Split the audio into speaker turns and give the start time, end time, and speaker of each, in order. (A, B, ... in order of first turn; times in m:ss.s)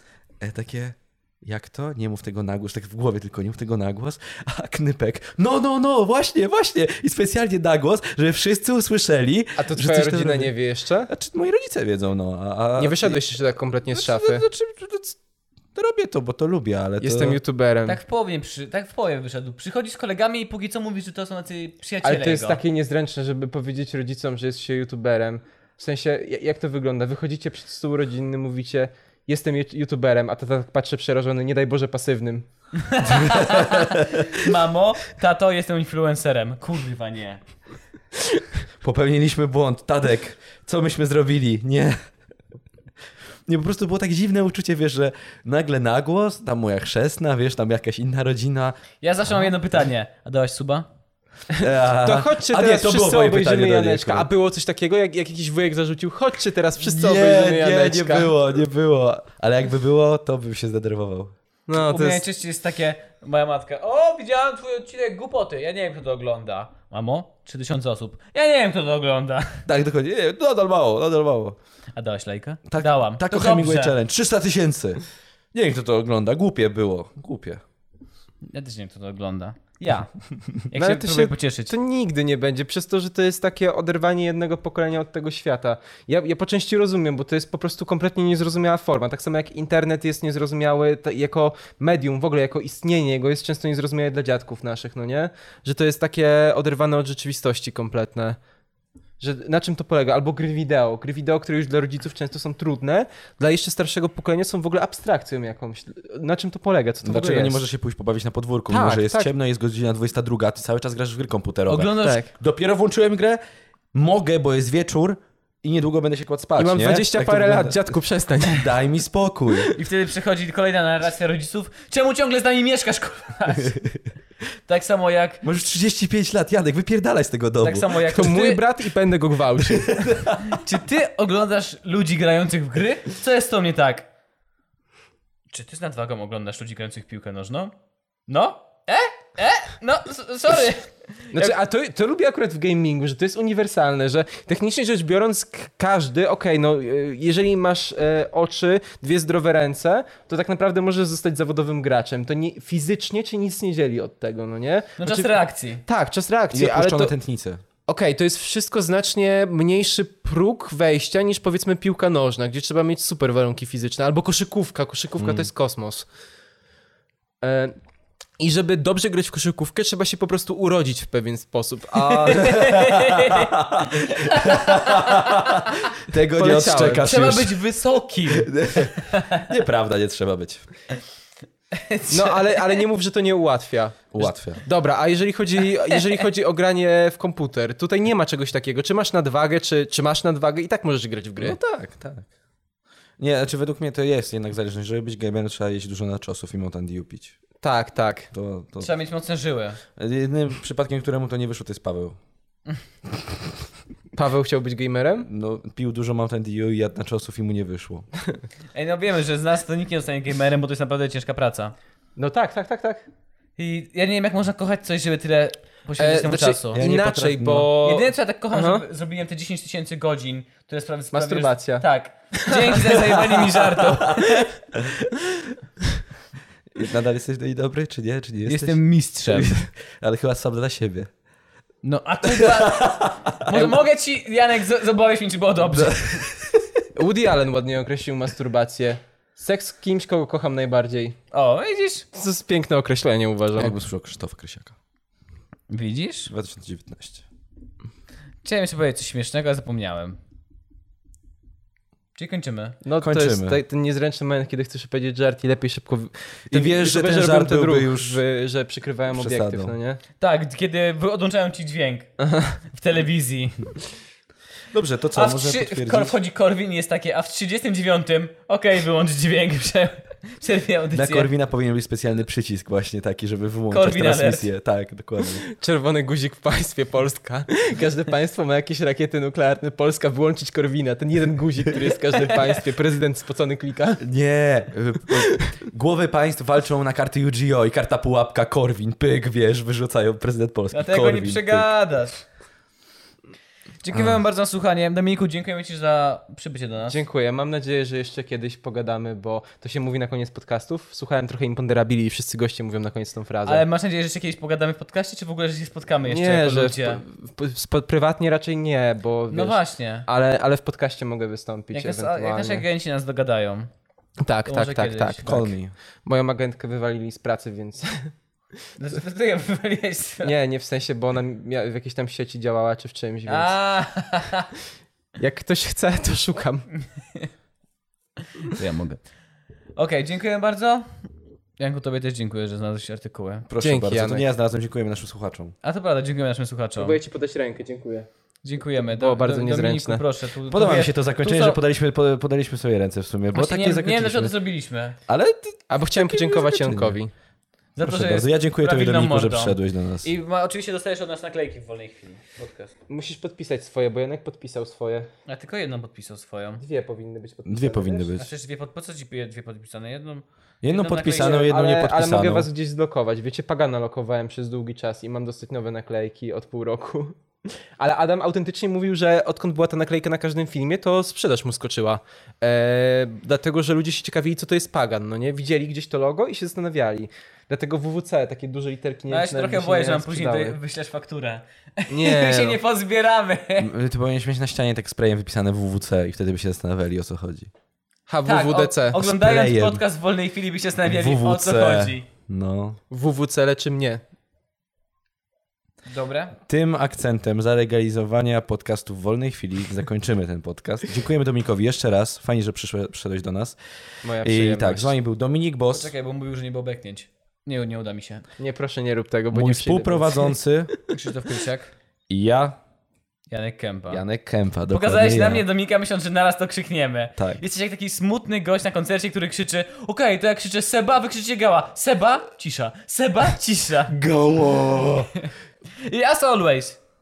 0:00.4-0:10.5 A
0:09.6-0:11.1 B
0:11.1-0:13.4 A
0:12.8-0:14.5 B
0:13.9-0:15.2 A
0:15.8-0:17.4 A
0:17.0-0:18.0 B
0:17.9-0:22.6 C
0:22.0-0:32.5 B
0:32.8-0:37.4 C
0:33.0-0:34.4 A
0:38.8-0:42.0 A
0:43.5-0:48.8 A
0:49.0-0:50.9 C
0:51.5-0:58.3 B
0:51.6-0:54.3 A
0:56.8-1:01.4 A
1:01.7-1:02.2 B
1:01.7-1:09.7 C
1:09.7-1:11.6 A
1:12.0-1:14.0 C
1:12.7-1:15.0 A
1:15.5-1:17.6 A
1:18.5-1:20.1 C
1:20.7-1:21.8 C
1:20.8-1:38.4 B
1:39.2-1:47.6 B
1:47.0-1:53.4 A
1:48.7-1:49.3 B
1:51.7-1:52.2 C
1:52.0-1:52.3 B
1:53.9-1:57.8 A
1:56.6-1:58.7 B
1:58.4-1:59.8 A
1:59.7-2:03.8 C
2:03.6-2:03.9 A
2:04.7-2:05.4 C
2:05.4-2:08.0 A
2:07.6-2:08.6 C
2:08.1-2:10.2 B
2:09.6-2:10.6 A
2:10.4-2:14.1 C
2:15.5-2:17.7 C
2:18.3-2:21.6 C
2:21.3-2:35.3 B
2:35.0-2:35.8 C
2:35.9-2:37.1 B
2:36.5-2:37.6 A
2:37.9-2:46.1 B
2:45.2-2:45.5 A
2:47.4-2:47.8 B
2:48.4-2:52.7 B
2:52.2-2:55.9 C
2:52.2-2:57.6 A
2:56.4-2:57.1 B
2:57.0-2:59.5 C
2:58.3-3:00.7 A
3:01.7-3:02.8 C
3:02.1-3:11.6 B
3:04.1-3:04.6 A
3:11.4-3:12.3 A
3:13.2-3:17.4 A
3:17.6-3:18.3 B
3:18.3-3:18.9 A
3:18.8-3:19.8 C
3:20.0-3:22.2 A
3:24.1-3:25.3 B
3:25.2-3:28.1 A
3:28.8-3:31.8 C
3:32.2-3:33.0 B
3:33.6-3:36.8 C
3:36.0-3:38.8 B
3:36.7-3:37.7 A
3:37.8-3:44.6 C
3:41.1-3:43.8 B
3:44.0-3:44.8 A
3:46.7-3:48.8 A
3:48.5-3:49.6 C
3:49.3-3:51.1 A
3:51.8-3:56.3 C
3:52.2-3:53.6 A
3:55.7-3:56.7 A
3:57.0-4:01.2 B
4:01.3-4:02.1 C
4:02.1-4:03.8 B
4:03.6-4:04.8 A
4:05.7-4:06.3 C
4:06.3-4:07.2 A
4:08.4-4:10.2 C
4:12.2-4:12.8 C
4:12.8-4:20.0 B
4:13.0-4:13.6 A
4:16.5-4:18.2 A
4:19.1-4:19.7 A
4:20.2-4:22.1 C
4:22.2-4:22.6 B
4:22.6-4:23.7 C
4:24.7-4:26.2 A
4:25.2-4:31.3 C
4:30.9-4:35.5 A
4:33.7-4:34.5 C
4:35.5-4:44.0 B
4:44.0-4:51.7 A
4:45.2-4:45.5 B
4:50.7-4:52.2 C
4:53.8-4:57.0 C
4:53.9-4:54.2 A
4:56.9-5:03.6 B
5:03.4-5:07.0 C
5:06.1-5:12.6 B
5:09.3-5:10.1 C
5:11.7-5:13.7 C
5:14.2-5:15.5 B
5:14.5-5:15.3 C
5:15.2-5:15.7 A
5:16.0-5:18.1 B
5:18.8-5:20.3 C
5:20.2-5:23.6 B
5:23.3-5:24.5 C
5:25.2-5:26.7 B
5:26.8-5:27.3 C
5:28.4-5:29.0 C
5:29.8-5:31.1 C
5:31.6-5:33.5 C
5:33.5-5:35.6 A
5:33.6-5:34.2 B
5:35.6-5:37.0 C
5:36.8-5:38.1 B
5:38.4-5:41.6 C
5:38.8-5:40.0 B
5:40.5-5:44.4 A
5:43.3-5:45.0 C
5:45.1-5:47.0 A
5:45.7-5:47.1 B
5:47.8-5:52.7 C
5:47.8-5:50.1 A
5:52.9-5:55.1 B
5:55.3-5:56.6 C
5:56.6-5:58.1 B
5:57.5-5:58.3 A
5:58.2-6:01.5 C
6:00.6-6:02.5 A
6:01.0-6:20.6 B
6:19.1-6:23.7 C
6:21.9-6:22.6 B
6:23.6-6:27.5 A
6:28.1-6:29.0 B
6:28.2-6:32.0 C
6:29.0-6:29.8 A
6:30.8-6:32.8 A
6:32.9-6:34.0 B
6:35.9-6:36.4 C
6:36.4-6:43.6 A
6:44.0-6:45.0 B
6:44.2-6:45.9 A
6:45.7-6:48.2 C
6:48.4-6:50.4 B
6:49.3-6:50.7 A
6:50.9-6:51.7 C
6:52.1-6:52.6 A
6:53.3-6:54.0 C
6:53.9-6:55.4 A
6:54.7-7:04.0 C
6:57.2-6:57.4 A
7:03.9-7:05.1 A
7:05.8-7:06.8 C